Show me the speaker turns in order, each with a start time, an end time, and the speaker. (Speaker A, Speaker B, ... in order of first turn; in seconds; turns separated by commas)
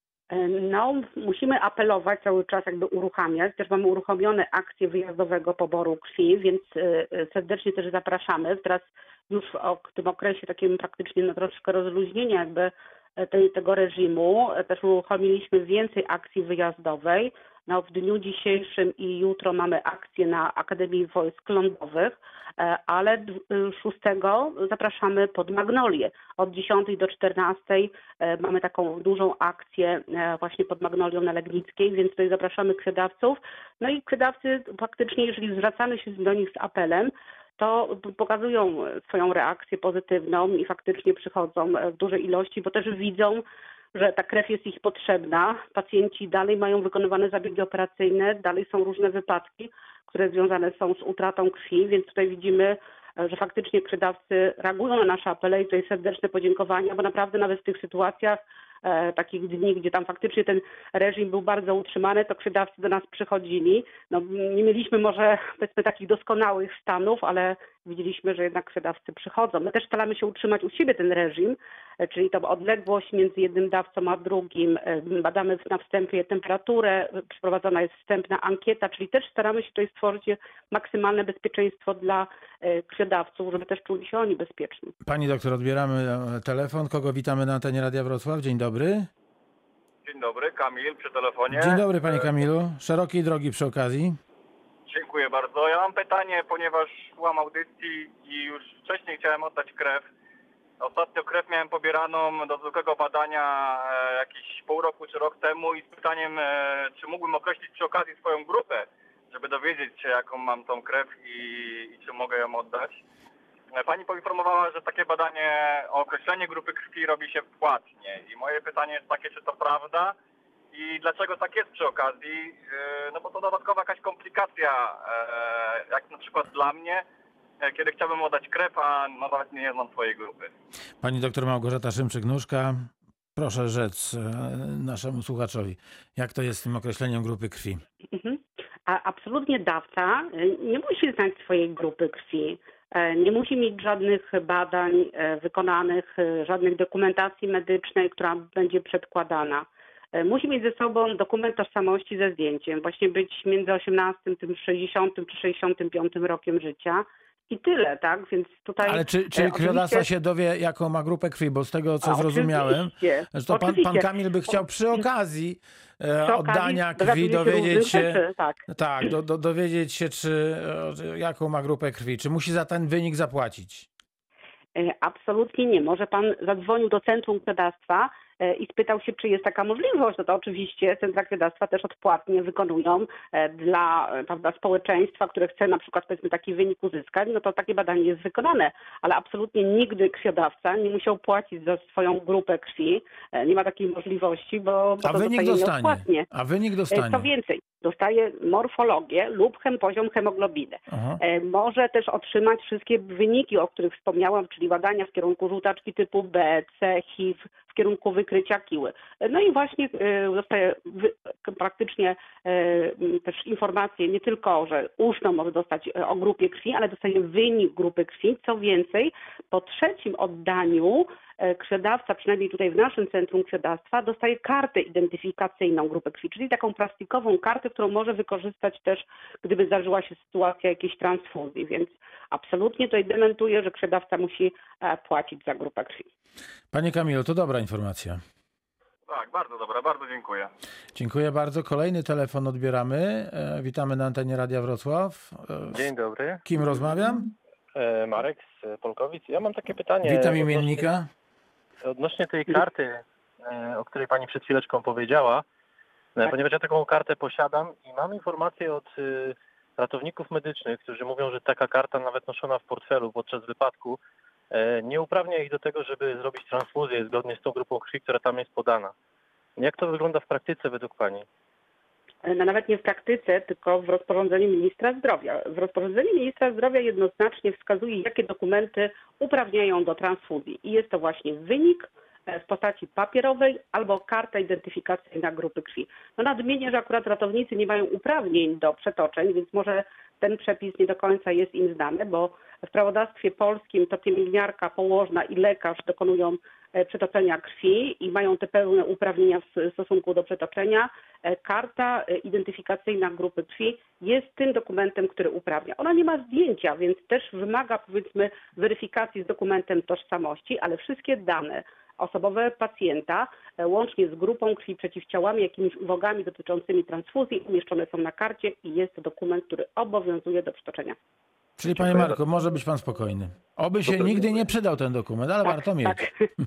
Speaker A: 0.3-84.9, Speaker B: 85.0-89.1, Speaker C: 90.0-91.9, Speaker B: 91.5-94.2, Speaker C: 94.9-100.1, Speaker C: 100.8-113.0, Speaker C: 113.7-120.2, Speaker C: 120.7-127.0, Speaker C: 127.6-130.5, Speaker B: 131.0-137.8, Speaker A: 138.1-160.1, Speaker B: 158.8-173.9, Speaker A: 162.0-164.5, Speaker A: 166.2-168.6, Speaker A: 174.7-196.3, Speaker B: 195.0-197.3, Speaker A: 196.9-236.1, Speaker B: 200.9-201.2, Speaker B: 236.7-238.2, Speaker C: 239.1-240.5, Speaker B: 240.9-245.8, Speaker D: 245.7-246.4, Speaker B: 246.4-247.3, Speaker D: 247.7-250.8, Speaker B: 250.0-251.1, Speaker D: 251.8-255.4, Speaker D: 256.2-264.0, Speaker D: 264.5-268.9, Speaker D: 269.6-271.2, Speaker A: 272.2-321.0, Speaker B: 321.6-326.0, Speaker D: 321.7-322.1, Speaker D: 323.8-324.3, Speaker A: 325.5-326.1